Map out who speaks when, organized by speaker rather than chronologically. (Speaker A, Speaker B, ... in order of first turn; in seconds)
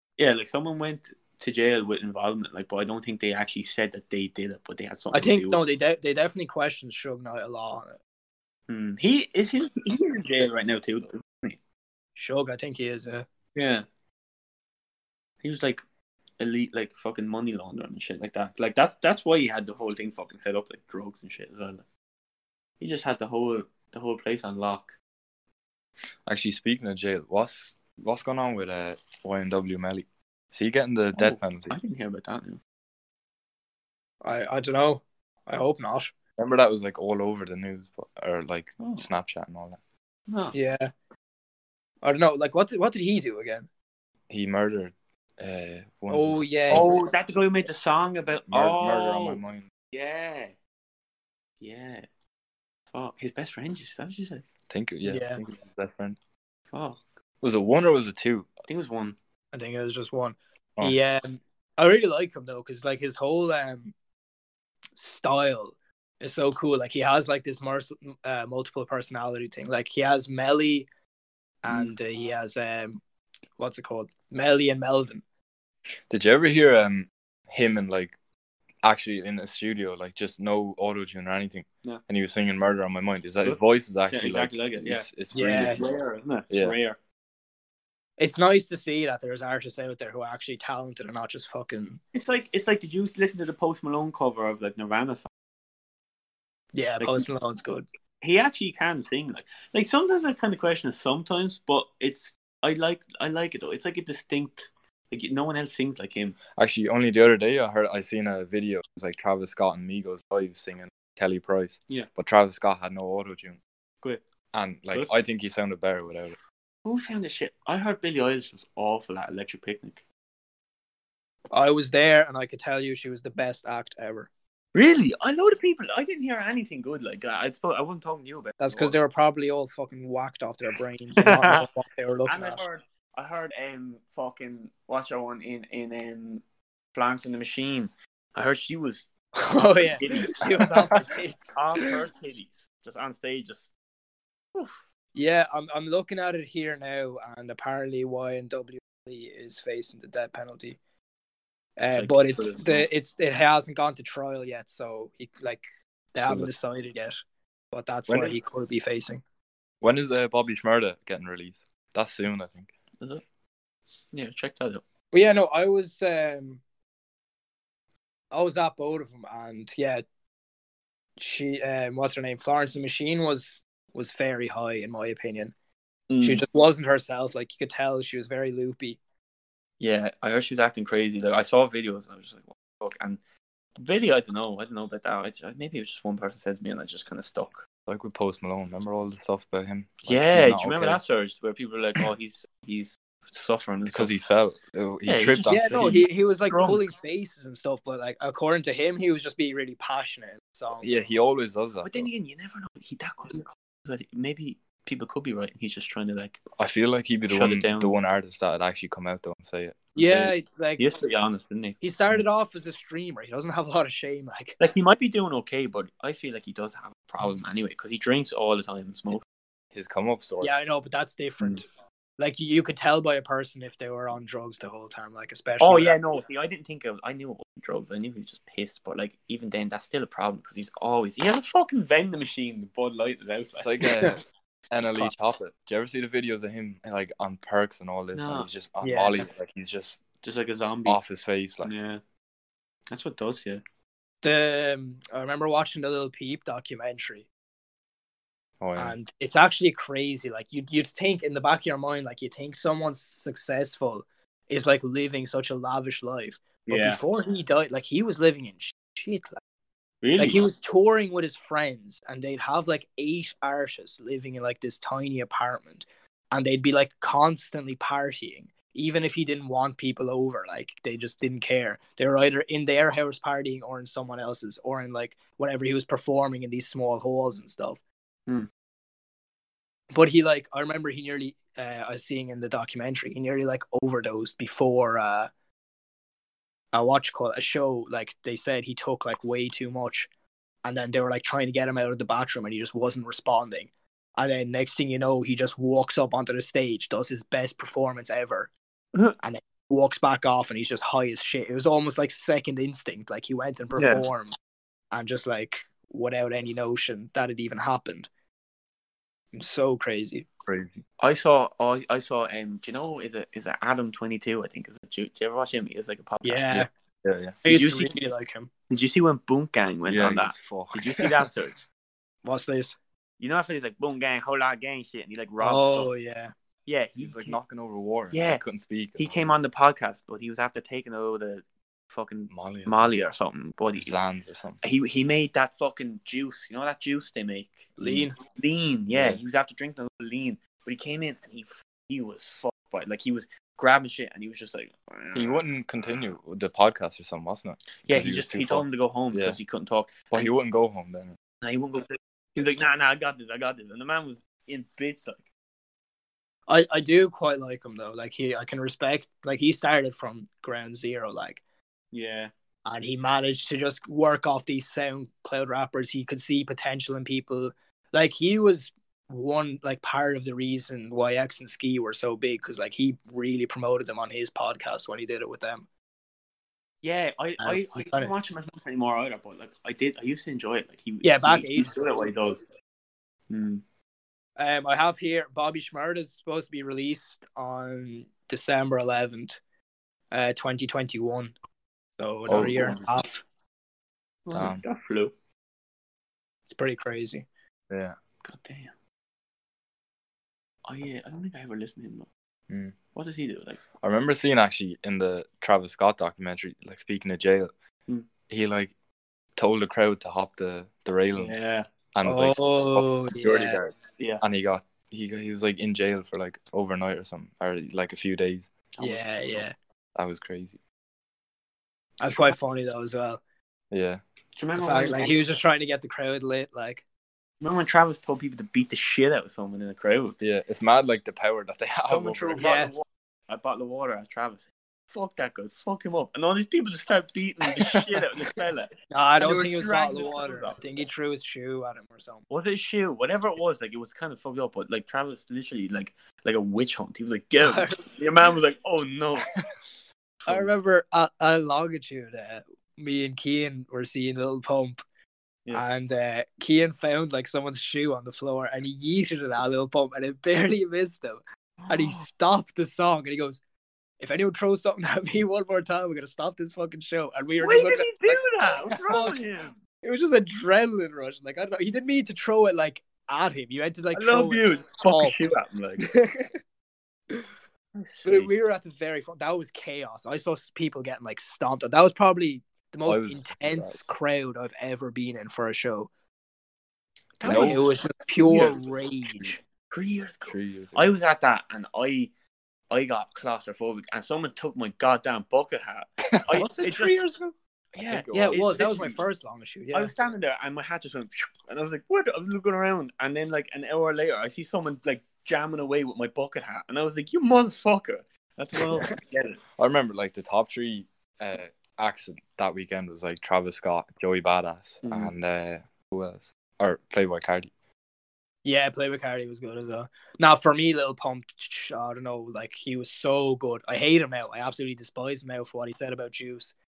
Speaker A: 0.2-5.6, 8.7-11.6, 13.6-13.9, 15.4-15.8, 16.4-21.9, 22.8-25.0, 31.1-32.6, 38.8-39.1, 40.3-40.5, 46.7-49.4, 49.9-50.5, 51.6-52.1, 52.9-54.5, 56.7-57.0, 58.7-59.2, 83.4-87.0, 92.1-95.3, 97.0-97.3, 98.2-106.4, 116.8-120.0, 124.7-129.0, 131.2-131.7, 132.3-136.4, 136.9-141.0, 141.5-143.7, 151.9-152.9, 164.1-164.8, 176.1-176.4, 179.8-183.2, 183.8-187.7, 190.1-194.1, 195.1-196.8, 201.8-206.4, 207.3-207.9, 210.8-211.8, 214.6-219.2, 225.6-233.8, 238.1-238.5, 240.2-241.0, 241.6-242.0, 242.9-243.6, 256.7-257.0, 260.0-260.4, 303.8-304.1, 311.0-316.7, 317.4-318.0, 318.7-321.7, 323.2-325.9, 326.7-327.4, 328.1-328.4, 329.0-334.0, 334.6-337.7, 338.4-345.4, 347.8-350.3, 351.4-355.2, 361.9-362.3, 376.8-382.5, 383.3-383.6, 392.4-392.9, 394.3-395.1, 398.2-398.7, 400.6-402.1, 402.9-403.6, 411.1-411.7, 414.0-414.2, 418.8-419.4, 424.4-425.2, 427.4-430.2, 431.8-440.9, 442.3-449.3, 461.6-462.0, 467.4-469.6, 473.9-475.9, 477.8-478.3, 487.2-487.7, 488.2-488.6, 489.7-492.1, 492.7-497.0, 497.8-499.0, 499.7-509.4, 514.8-515.1
Speaker B: 5.1-8.0, 12.2-13.3, 34.2-36.1, 40.5-40.9, 42.0-43.7, 46.1-47.0, 55.0-55.4, 59.5-63.9, 65.0-70.9, 71.6-73.0, 73.6-75.2, 85.3-85.8, 88.2-92.0, 96.7-97.9, 121.5-124.3, 128.6-132.6, 139.4-141.9, 145.2-150.8, 151.8-157.2, 157.7-159.2, 165.1-166.6, 168.3-170.0, 171.2-175.5, 176.2-179.0, 195.5-200.9, 210.0-210.9, 211.8-214.6, 220.4-221.7, 222.2-226.0, 234.8-235.1, 238.8-239.3, 244.2-247.3, 248.8-259.4, 260.2-277.8, 279.9-285.3, 286.7-290.1, 290.6-298.5, 299.2-304.3, 304.9-308.1, 309.3-310.3, 316.2-316.7, 317.4-318.5, 322.2-322.8, 325.4-326.3, 337.8-338.2, 356.5-361.4, 362.6-375.7, 377.4-378.1, 381.0-382.1, 384.4-389.4, 390.1-391.3, 392.0-393.2, 396.5-397.3, 412.1-413.6, 418.8-419.5, 422.0-423.2, 424.6-426.8, 432.4-432.7, 438.9-442.2, 447.4-447.8, 450.3-454.8, 455.5-463.4, 464.0-469.2, 469.8-475.2, 475.8-476.4, 478.0-485.9, 487.2-489.4, 496.4-497.3, 498.1-499.9, 518.4-526.5
Speaker C: 26.2-31.8, 36.4-39.8, 44.3-46.9, 48.5-49.7, 54.7-56.2, 57.4-58.5, 76.1-78.2, 78.8-85.8, 86.5-86.8, 106.5-113.6, 114.5-116.4, 156.2-156.5, 158.1-158.3, 159.8-162.7, 187.9-191.0, 193.9-196.0, 200.8-202.1, 206.6-210.3, 219.8-220.5, 233.6-240.0, 240.9-241.7, 248.6-249.0, 310.5-310.8, 317.0-317.4, 319.9-321.1, 327.0-329.4, 332.3-332.9, 333.8-334.6, 337.8-338.1, 338.9-339.2, 345.1-349.4, 350.1-351.2, 392.3-392.8, 394.3-394.6, 397.7-398.0, 402.5-402.8, 403.8-407.5, 408.3-408.7, 409.4-411.4, 411.9-418.5, 420.0-420.6, 423.7-424.0, 430.2-432.5, 482.9-483.8, 487.2-487.6, 490.2-490.9, 497.8-498.6, 509.6-517.5